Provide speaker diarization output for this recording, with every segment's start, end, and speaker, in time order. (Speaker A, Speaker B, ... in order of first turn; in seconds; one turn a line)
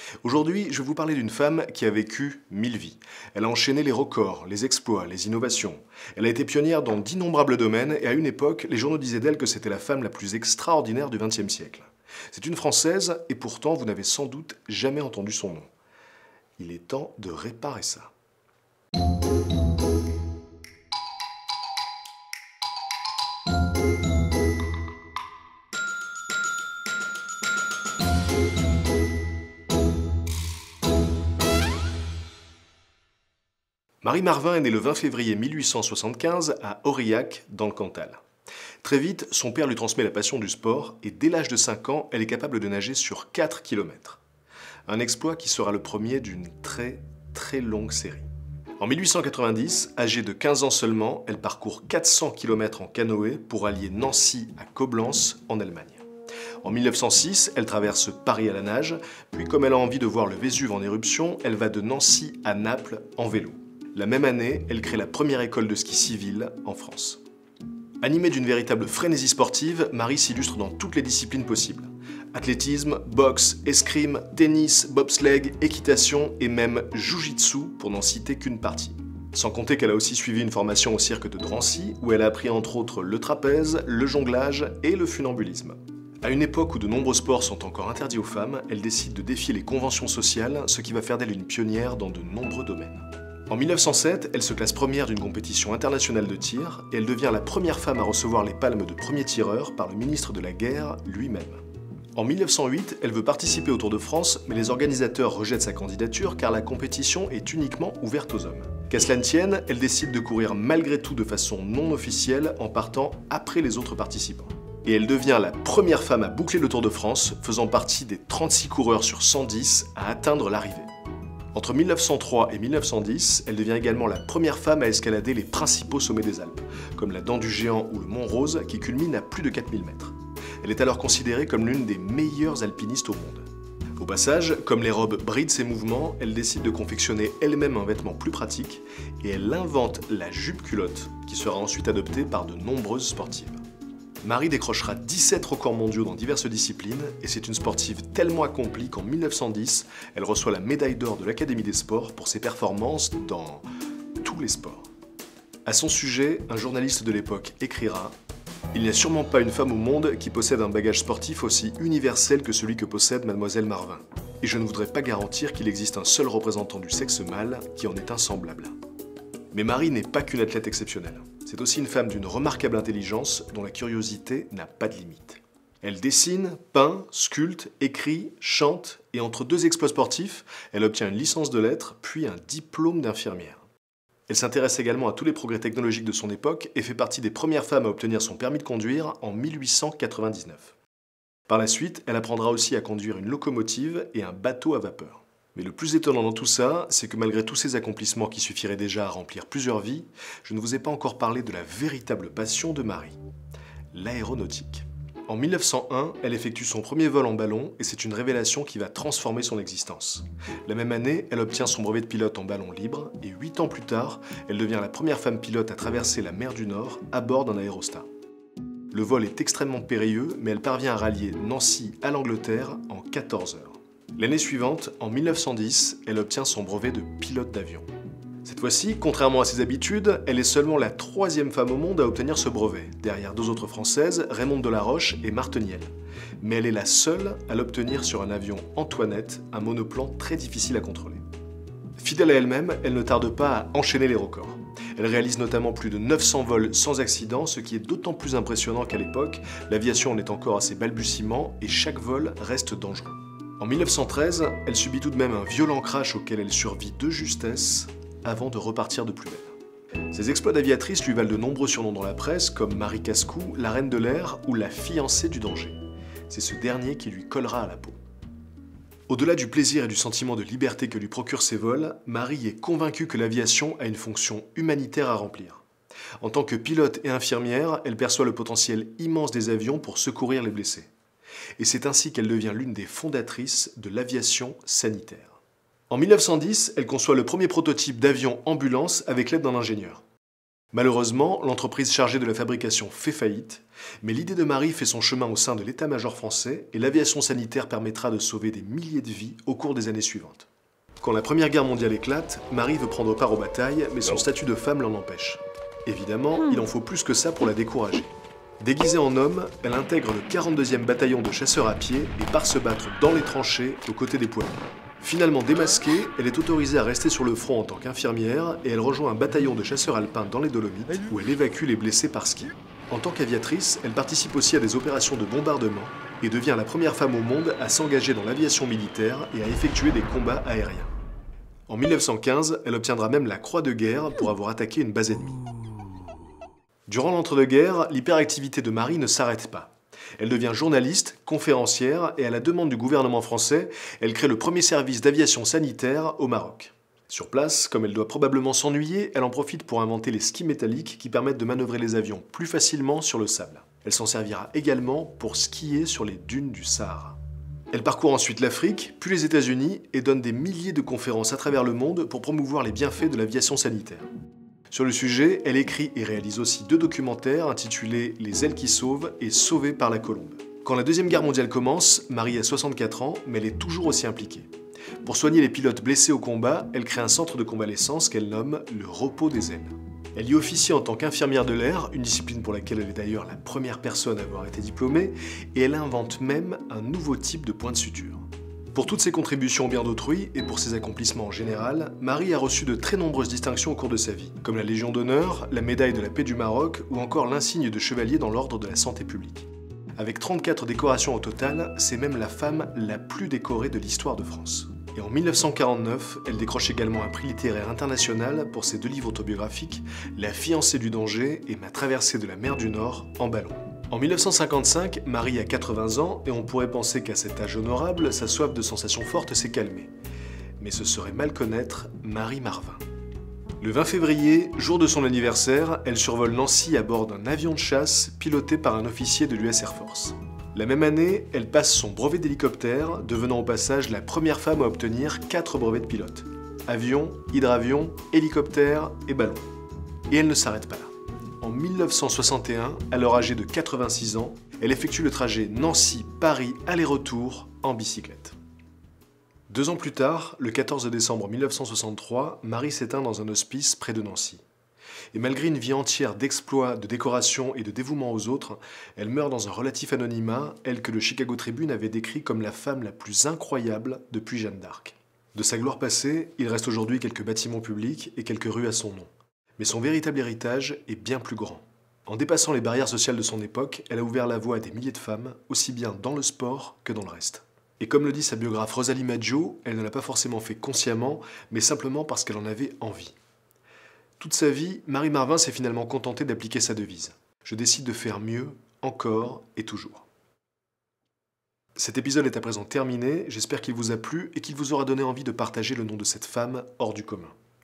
Speaker A: 0.2-15.7
Speaker A: 16.6-18.1
Speaker A: 34.0-38.2
Speaker A: 38.8-44.2
Speaker A: 44.9-48.2
Speaker A: 48.8-56.0
Speaker A: 56.6-67.2
Speaker A: 68.0-101.6
Speaker A: 102.1-120.9
Speaker A: 121.5-143.6
Speaker A: 144.2-153.6
Speaker A: 154.2-154.9
Speaker A: 155.6-158.1
Speaker A: 158.7-168.7
Speaker A: 169.5-183.6
Speaker A: 184.3-190.7
Speaker A: 191.5-203.2
Speaker A: 203.9-218.1
Speaker A: 218.9-227.9
Speaker A: 228.4-241.2
Speaker A: 242.0-259.5
Speaker A: 260.1-265.8
Speaker A: 266.3-268.0
Speaker A: 269.1-275.6
Speaker A: 276.2-280.9
Speaker A: 281.6-285.3
Speaker A: 285.9-290.0
Speaker A: 290.7-300.5
Speaker A: 301.0-330.9
Speaker A: 331.7-335.4
Speaker A: 336.9-357.2
Speaker A: 357.7-364.1
Speaker A: 364.7-374.5
Speaker A: 375.0-419.9
Speaker A: 420.6-422.8
Speaker A: 423.6-439.4
Speaker A: 440.1-448.4
Speaker A: 449.5-454.4
Speaker A: 455.1-483.1
Speaker A: 484.2-490.1
Speaker A: 491.8-497.3